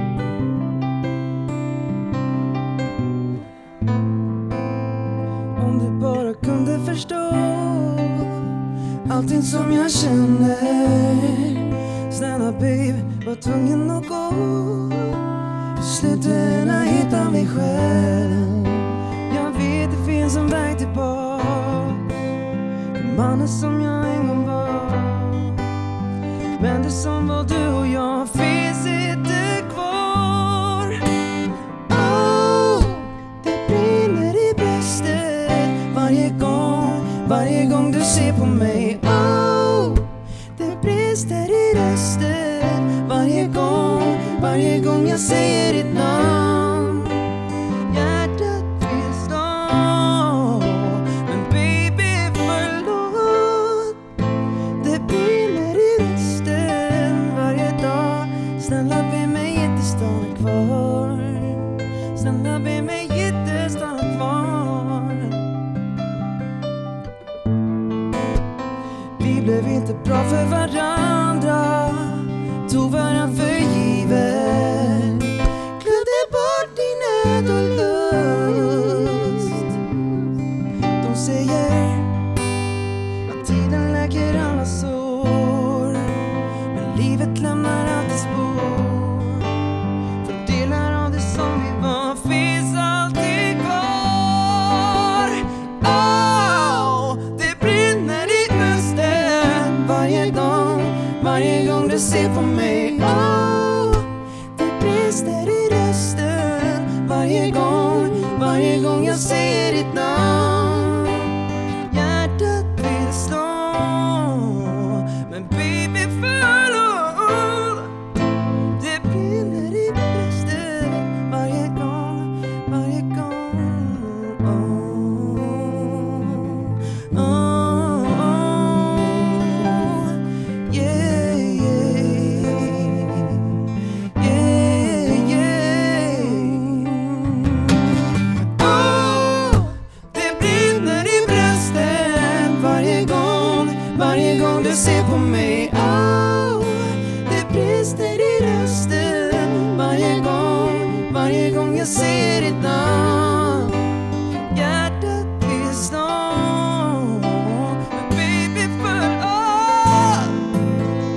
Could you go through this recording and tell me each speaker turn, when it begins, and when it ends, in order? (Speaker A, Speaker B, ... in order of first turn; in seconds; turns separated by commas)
Speaker A: 5.6-22.1, Speaker A: 22.9-25.6, Speaker A: 26.6-31.0, Speaker A: 31.9-54.0, Speaker A: 54.8-65.4, Speaker A: 69.2-79.8, Speaker A: 81.0-82.1, Speaker A: 83.2-89.6, Speaker A: 90.2-117.9, Speaker A: 118.7-133.6, Speaker A: 134.2-137.8, Speaker A: 138.4-153.8, Speaker A: 154.5-160.6